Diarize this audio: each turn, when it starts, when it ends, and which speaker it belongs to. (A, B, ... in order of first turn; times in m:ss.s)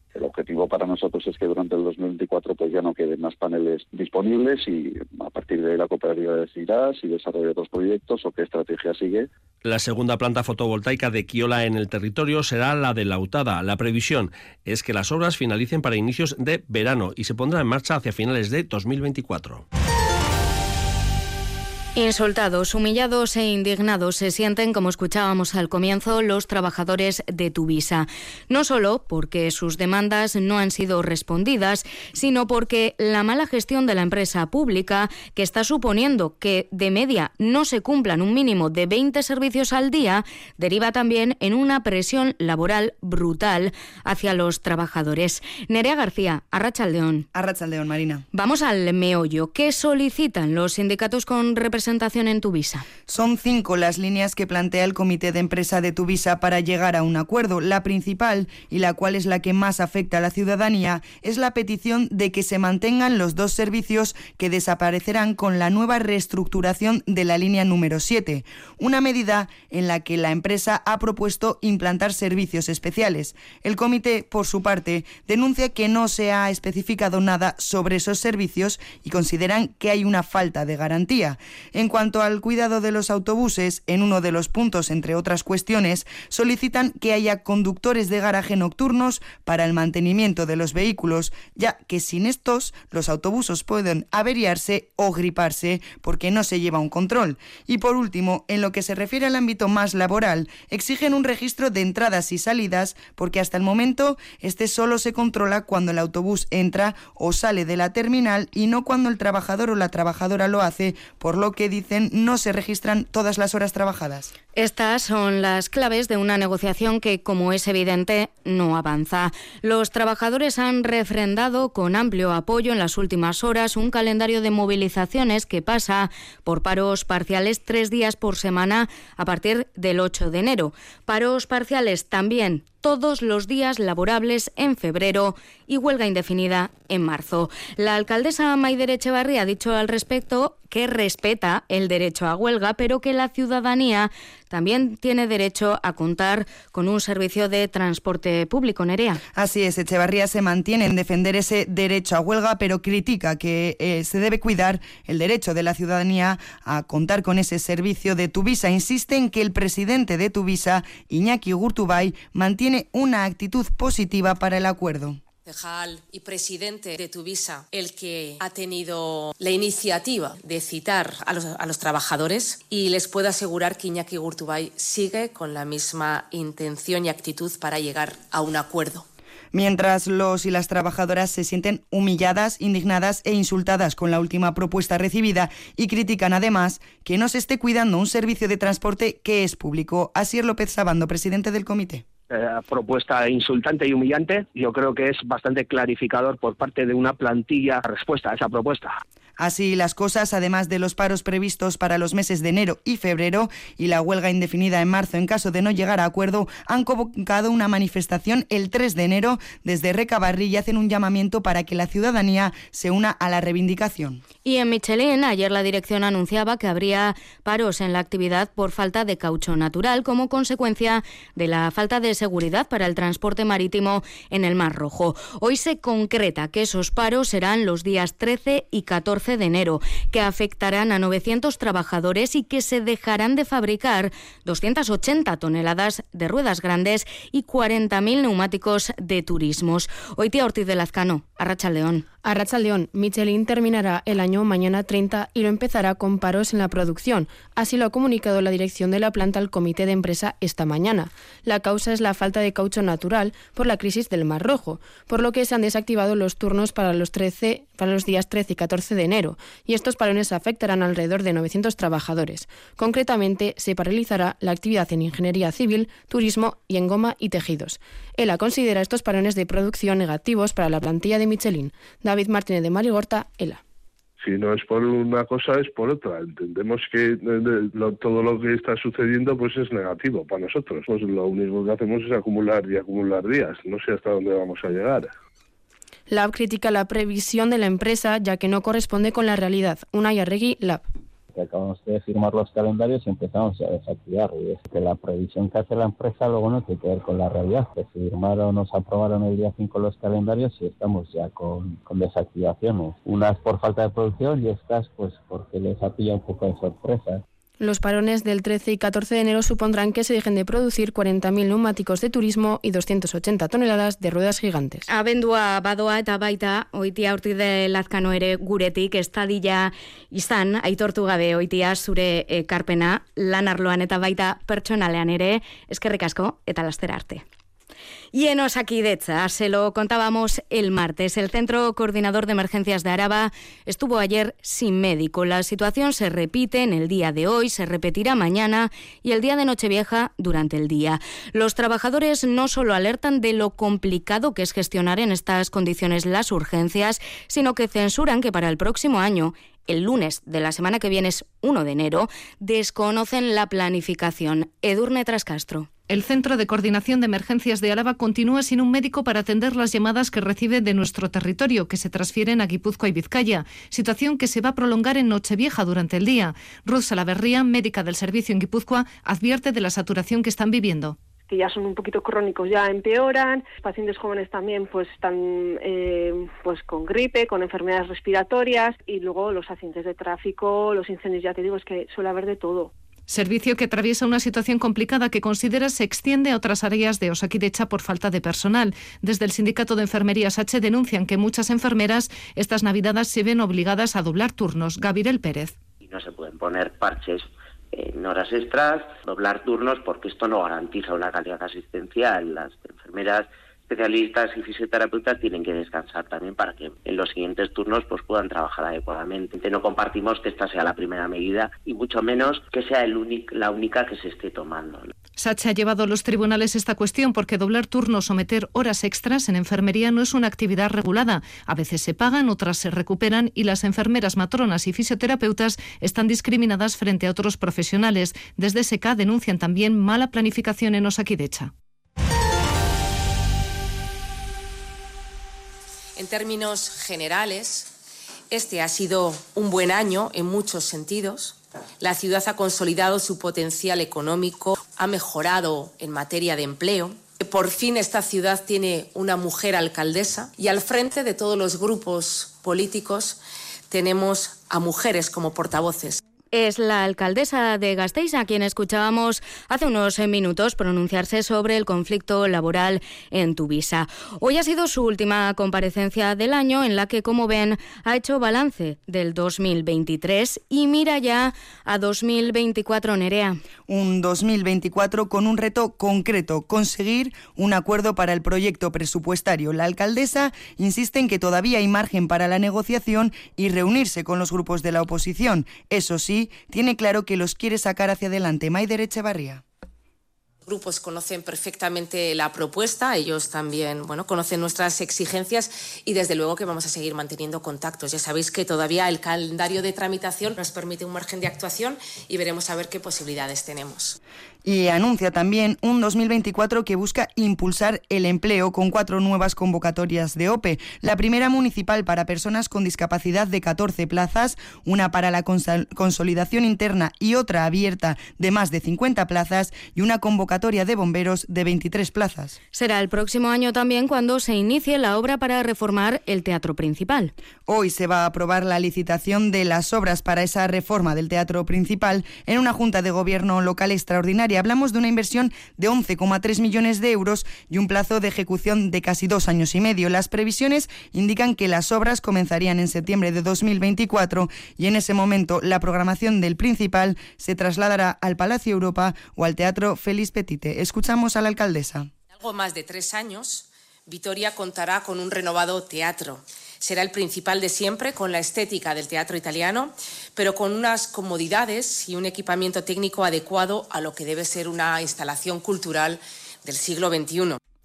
0:00.2-0:09.3 A
0:09.6-0:19.6 B
0:22.0-0:47.3 C
0:47.3-0:48.2 D
0:48.3-0:52.9 C
0:53.1-1:54.3 D
1:54.6-2:29.2 C
2:29.3-2:45.2 D
2:45.4-2:59.0 E
2:59.5-3:12.0 D
3:12.3-3:19.0 F
3:19.4-3:34.2 D
3:34.4-4:02.1 C
4:02.2-4:33.6 G
4:34.2-4:45.1 H
4:46.1-4:50.8 G
4:51.3-5:07.2 I
5:07.6-5:14.9 G
5:14.9-5:27.2 C
5:28.1-5:55.7 C
5:55.9-6:11.0 J
6:11.3-6:22.7 K
6:23.1-6:35.5 J
6:35.8-6:54.9 L
6:55.2-7:11.5 J
7:16.0-7:17.7 E
7:18.3-7:33.2 E
7:33.7-7:36.0 E
7:36.3-7:53.4 C
7:53.7-8:09.4 D
8:10.4-8:24.0 E
8:24.4-8:42.4 D
8:42.5-8:47.1 C
8:47.5-9:11.9 D
9:12.2-9:27.4 E